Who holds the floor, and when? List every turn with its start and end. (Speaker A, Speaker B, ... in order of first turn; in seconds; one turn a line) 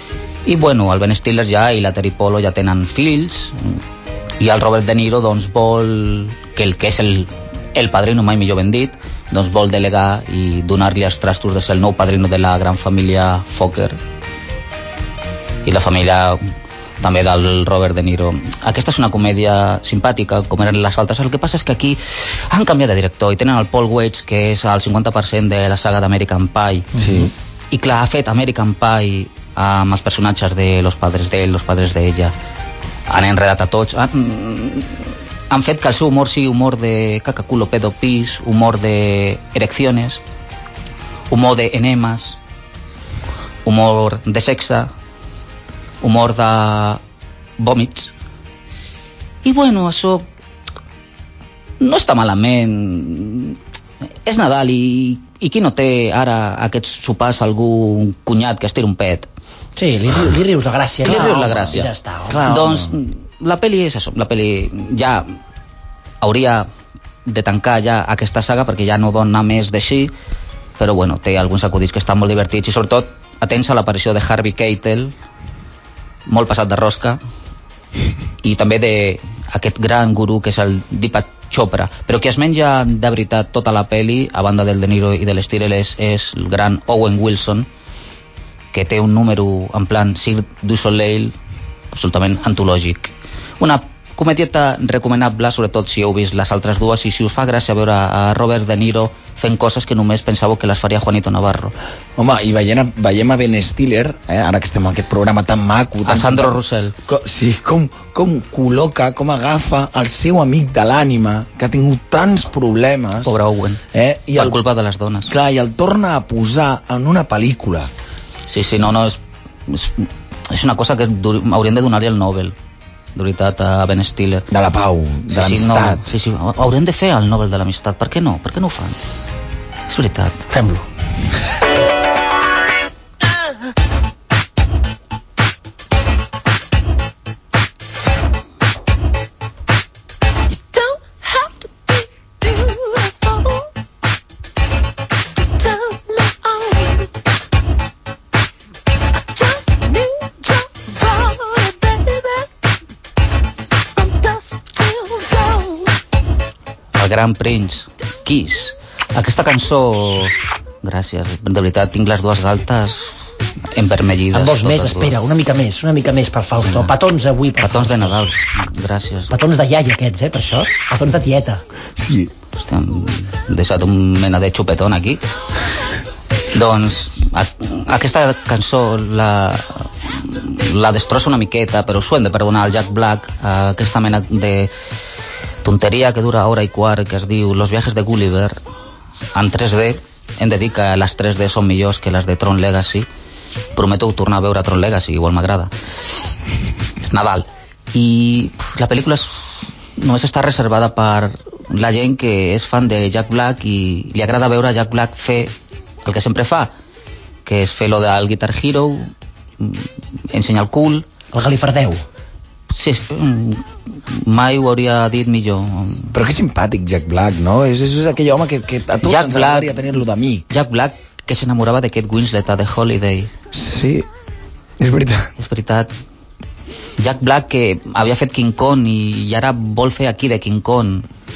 Speaker A: 0.5-3.8
Speaker A: 4.4-14.0
Speaker A: 15.7-16.4
Speaker A: 17.0-27.0
Speaker B: 27.0-27.3
Speaker A: 27.7-32.3
Speaker A: 33.1-40.2
Speaker A: 41.3-42.4
Speaker A: 43.6-44.9
Speaker A: 46.0-47.0
Speaker A: 47.6-48.1
Speaker A: 49.4-50.3
Speaker A: 51.8-53.6
Speaker A: 54.2-59.3
Speaker C: 59.8-62.5
Speaker A: 61.0-61.9
Speaker B: 61.1-63.0
Speaker A: 62.4-65.4
Speaker A: 66.2-66.7
Speaker A: 67.2-70.1
Speaker A: 70.8-75.1
Speaker A: 76.3-77.2
Speaker A: 78.4-87.7
Speaker A: 88.7-91.3
Speaker A: 91.9-101.7
Speaker B: 102.2-113.4
Speaker A: 106.1-107.0
Speaker A: 113.2-113.8
Speaker B: 113.9-114.6
Speaker A: 114.4-115.3
Speaker B: 115.3-117.9
Speaker A: 118.5-122.5
Speaker A: 123.2-124.5
Speaker B: 124.5-126.0
Speaker A: 125.3-129.0
Speaker A: 129.9-130.5
Speaker C: 130.5-130.8
Speaker C: 140.6-143.6
Speaker C: 145.6-147.0
Speaker C: 149.7-152.3
Speaker C: 154.0-155.8
Speaker A: 156.9-163.2
Speaker A: 163.7-165.1
Speaker C: 164.3-168.3
Speaker A: 166.7-166.9
Speaker A: 167.6-169.3
Speaker C: 169.3-171.6
Speaker B: 172.0-172.3
Speaker A: 172.6-175.2
Speaker A: 176.5-184.7
Speaker A: 185.6-188.6
Speaker A: 189.3-193.1
Speaker A: 193.8-195.7
Speaker A: 197.0-205.5
Speaker A: 206.0-206.7
Speaker A: 207.4-211.1
Speaker C: 211.3-212.0
Speaker A: 212.7-216.2
Speaker B: 216.1-220.5
Speaker A: 219.0-223.3
Speaker B: 223.5-224.1
Speaker B: 224.8-225.3
Speaker A: 225.4-225.9
Speaker A: 227.0-231.1